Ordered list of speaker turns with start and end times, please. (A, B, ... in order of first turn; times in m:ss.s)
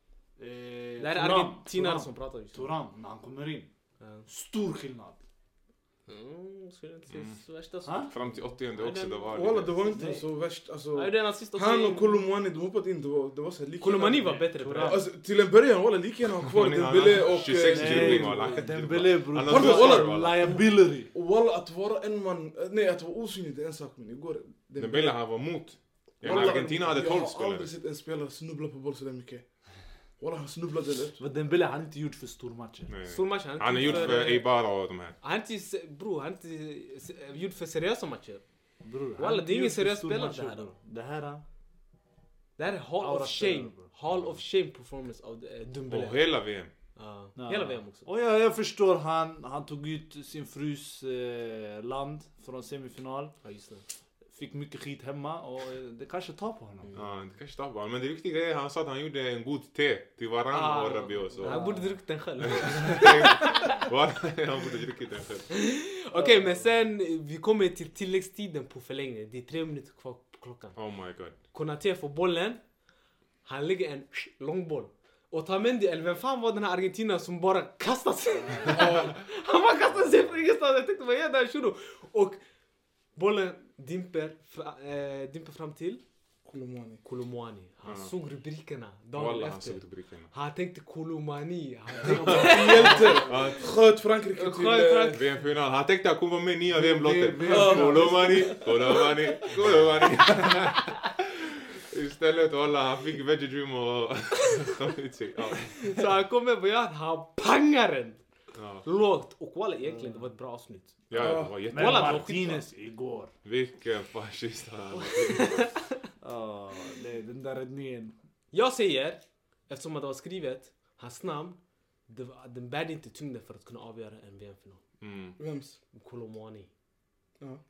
0:00.4-0:03.7 A
0:01.0-0:02.7 B
0:04.0-0:04.3 B
0:04.3-0:05.2 A
0:06.1-0:10.3 B
0:07.1-0:07.4 C
0:07.8-0:08.1 A
0:08.1-0:09.8 C
0:09.3-0:18.6 D
0:11.0-0:12.3 B
0:13.8-0:15.1 B
0:14.2-0:15.1 A
0:16.4-0:20.4 C
0:17.7-0:21.1 A
0:19.4-0:20.5 D
0:21.1-0:25.2 D
0:24.8-0:27.7 C
0:26.2-0:26.8 A
0:26.2-0:29.5 D
0:30.2-0:31.2 D
0:31.2-0:32.9 A
0:32.9-0:35.2 C
0:33.1-0:34.5 B
0:33.8-0:34.4 A
0:35.2-0:38.4 B
0:38.8-0:41.4 A
0:39.2-0:40.7 B
0:42.6-0:46.4 B
0:43.0-0:43.9 A
0:44.1-0:44.4 C
0:45.9-0:46.7 C
0:47.0-0:48.1 B
0:47.4-0:53.4 A
0:53.4-0:53.8 B
0:54.3-0:56.9 A
0:56.9-1:01.7 C
1:00.5-1:03.8 B
1:01.4-1:02.0 A
1:02.4-1:05.5 C
1:05.5-1:10.8 B
1:10.8-1:11.4 C
1:11.5-1:12.6 B
1:13.4-1:22.4 B
1:23.2-1:26.0 B
1:26.4-1:27.0 D
1:27.0-1:33.6 B
1:27.8-1:28.1 C
1:29.1-1:30.3 C
1:32.1-1:33.7 C
1:32.1-1:35.2 D
1:34.3-1:35.2 B
1:35.1-1:45.8 C
1:36.7-1:38.9 A
1:37.5-1:38.5 D
1:38.4-1:39.1 B
1:45.6-1:48.2 B
1:48.6-1:48.9 C
1:48.8-1:51.0 B
1:49.9-1:50.3 A
1:51.1-1:52.4 C
1:51.1-1:51.6 D
1:51.6-1:53.3 A
1:51.7-1:52.7 B
1:53.4-1:55.8 C
1:54.9-1:56.0 B
1:56.2-1:58.2 A
1:58.5-2:04.8 B
2:05.0-2:05.4 C
2:05.4-2:05.8 D
2:05.9-2:06.7 B